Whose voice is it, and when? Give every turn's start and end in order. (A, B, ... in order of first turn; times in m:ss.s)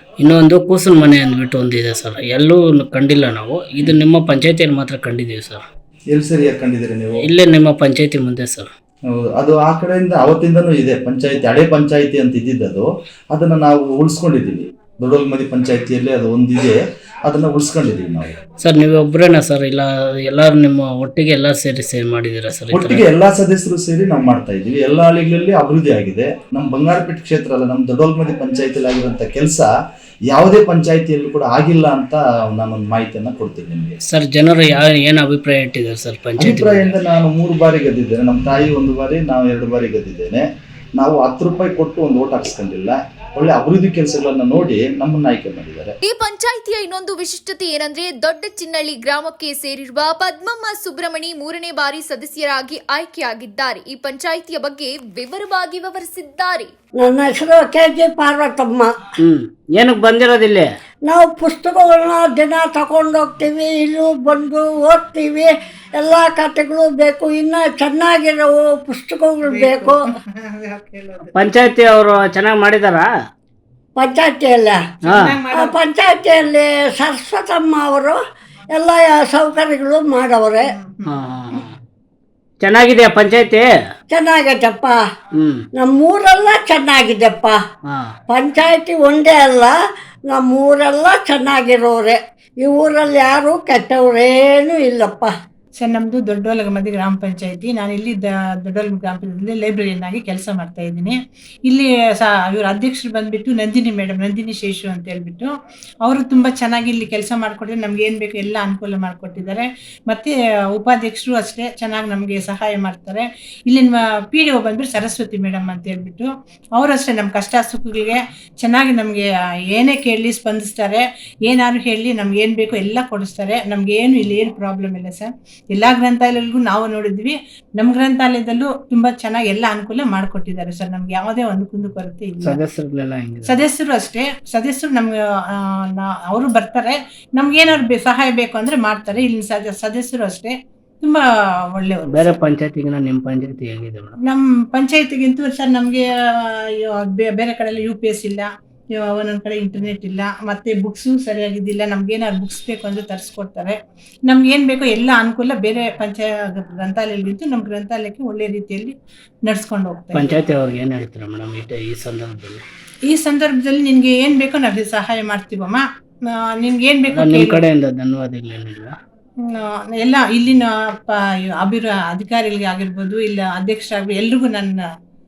0:00.2-0:05.6 A
0:06.1-0:07.3 B
0:07.2-0:08.7 A
0:09.1-0:18.4 B
0:18.6-0:23.1 A
0:22.7-0:29.7 B
0:30.3-0:34.0 B
0:34.1-0:37.0 A
0:36.4-0:40.4 B
0:41.0-0:45.9 B
0:46.0-0:56.7 C
0:57.0-0:58.9 D
0:59.2-1:00.7 A
1:01.0-1:10.0 D
1:09.4-1:11.3 E
1:11.3-1:13.1 A
1:14.0-1:14.8 D
1:15.0-1:15.4 A
1:15.2-1:15.8 E
1:15.5-1:18.2 D
1:18.7-1:20.7 D
1:20.7-1:21.1 E
1:21.0-1:21.6 A
1:22.6-1:23.7 A
1:24.1-1:25.0 D
1:25.4-1:25.6 A
1:25.8-1:27.6 D
1:27.8-1:28.1 A
1:28.3-1:29.8 D
1:30.3-1:35.3 D
1:35.8-2:12.6 E
2:12.4-2:13.6 A
2:13.5-2:21.2 E
2:21.7-2:22.4 E
2:22.1-2:24.2 A
2:24.2-2:26.0 E
2:26.8-2:38.9 E
2:39.4-2:40.3 E
2:40.1-2:42.6 A
2:43.1-2:45.8 E
2:46.4-2:47.6 E
2:47.1-2:48.9 A
2:49.4-2:54.8 E